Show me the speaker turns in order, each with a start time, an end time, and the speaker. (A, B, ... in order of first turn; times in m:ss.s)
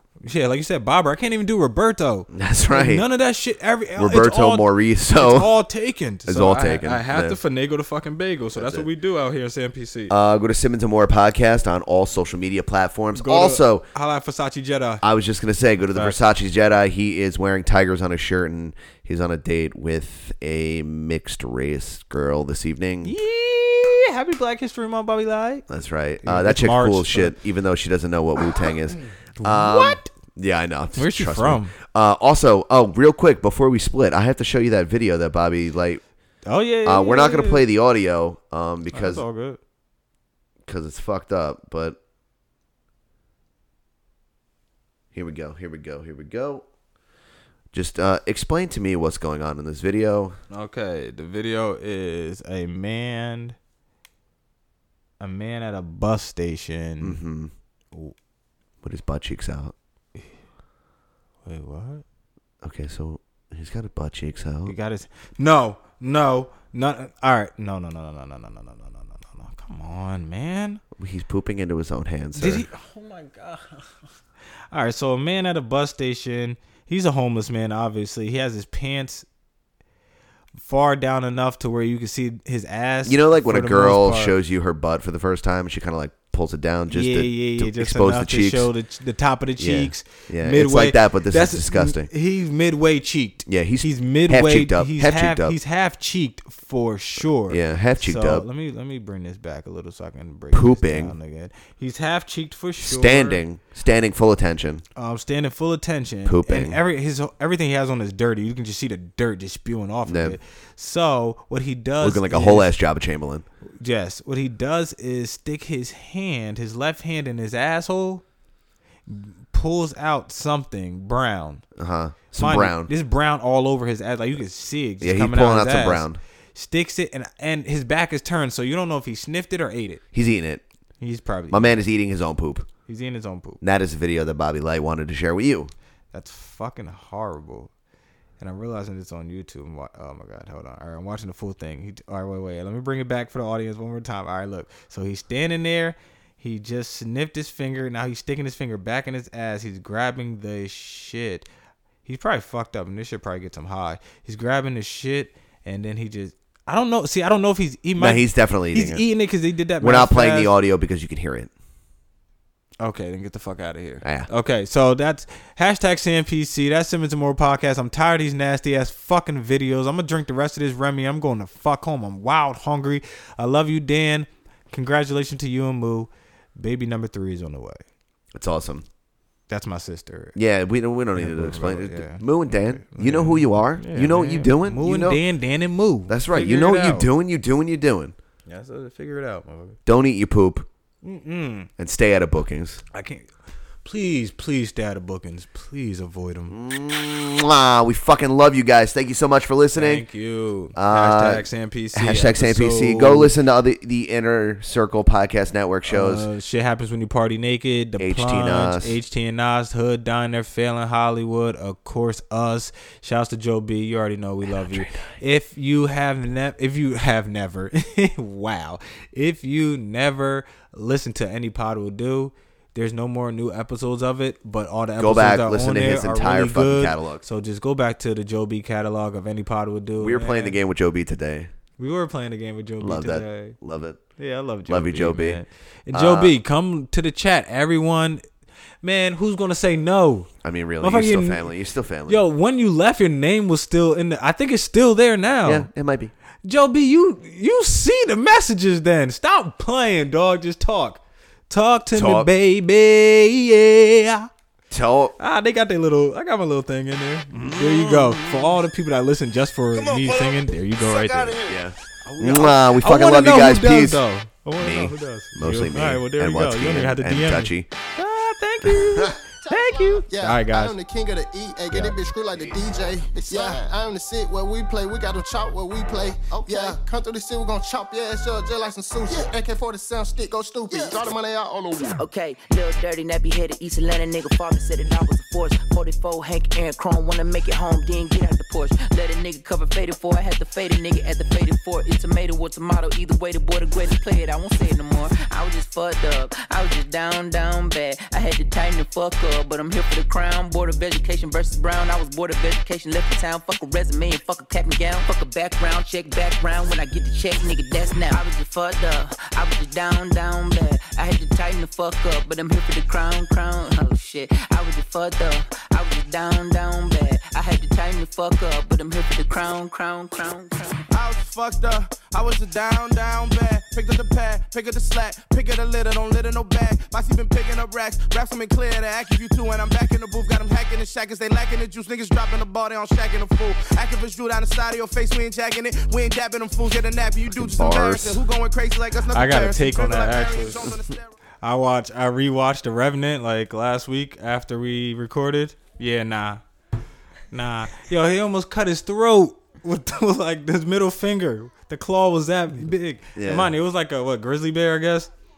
0:00.2-0:10.1 A
0:02.3-0:03.0 B
0:04.0-0:05.6 B
0:06.3-0:07.4 B
0:08.6-0:08.9 B
0:10.1-0:13.9 B
0:13.2-0:15.0 A
0:15.0-0:23.2 B
0:15.9-0:16.2 A
0:23.0-0:25.7 A
0:25.7-0:36.0 B
0:26.2-0:27.4 A
0:29.4-0:30.1 A
0:30.9-0:31.8 A
0:36.5-0:37.6 A
0:36.8-0:39.3 B
0:38.9-0:39.6 A
0:40.7-0:42.0 B
0:45.1-0:46.6 B
0:47.7-0:50.4 B
0:50.5-0:53.6 A
0:55.2-0:57.2 A
0:57.0-0:57.5 B
0:58.8-0:59.7 B
1:01.4-1:02.0 A
1:02.6-1:04.7 B
1:04.7-1:10.8 A
1:11.0-1:12.7 B
1:12.4-1:13.9 A
1:14.7-1:19.3 A
1:20.6-1:24.4 A
1:23.0-1:28.7 B
1:26.9-1:43.4 A
1:29.6-1:32.1 B
1:33.5-1:35.6 B
1:37.5-1:38.5 B
1:40.5-1:41.1 B
1:42.8-1:44.8 B
1:45.0-1:52.7 A
1:46.2-1:46.8 B
1:50.1-1:50.4 B
1:52.0-1:53.5 B
1:53.8-1:58.2 A
1:59.1-2:01.6 A
2:01.8-2:02.9 B
2:02.4-2:10.0 A
2:05.0-2:06.2 B
2:10.1-2:10.6 B
2:11.0-2:11.8 A
2:11.5-2:12.7 B
2:12.9-2:13.6 A
2:13.6-2:15.7 B
2:16.1-2:17.7 A
2:18.4-2:31.5 A
2:32.0-2:40.5 A
2:38.0-2:39.0 B
2:39.8-2:41.5 B
2:42.8-2:57.8 A
2:44.0-2:44.3 B
2:58.3-2:58.8 B
2:59.5-3:00.4 A
3:00.4-3:05.2 B
3:01.2-3:07.1 A
3:06.1-3:08.1 B
3:08.5-3:09.8 A
3:09.9-3:10.7 B
3:11.0-3:11.7 A
3:11.8-3:12.8 B
3:12.9-3:13.3 A
3:13.8-3:16.6 A
3:16.5-3:20.0 B
3:19.8-3:23.3 A
3:20.8-3:26.3 B
3:25.9-3:50.6 A
3:28.0-3:29.0 B
3:34.5-3:35.1 B
3:45.0-3:47.2 B
3:50.0-3:51.5 B
3:51.8-3:53.6 A
3:52.8-3:54.0 B
3:54.2-3:58.2 A
3:54.7-3:56.4 B
3:58.8-4:01.5 A
4:00.4-4:02.2 B
4:02.1-4:05.7 A
4:05.4-4:06.1 B
4:06.4-4:14.3 A
4:11.9-4:12.3 B
4:14.7-4:15.1 B
4:15.2-4:21.4 A
4:17.3-4:18.6 B
4:19.7-4:21.6 C
4:21.5-4:24.0 B
4:22.0-4:30.8 A
4:24.6-4:27.7 B
4:29.3-4:42.0 C
4:42.0-5:20.9 D
5:20.9-5:41.1 E
5:37.3-5:38.2 B
5:39.1-5:40.8 A
5:41.4-5:46.4 A
5:47.3-5:55.1 A
5:53.2-5:53.5 B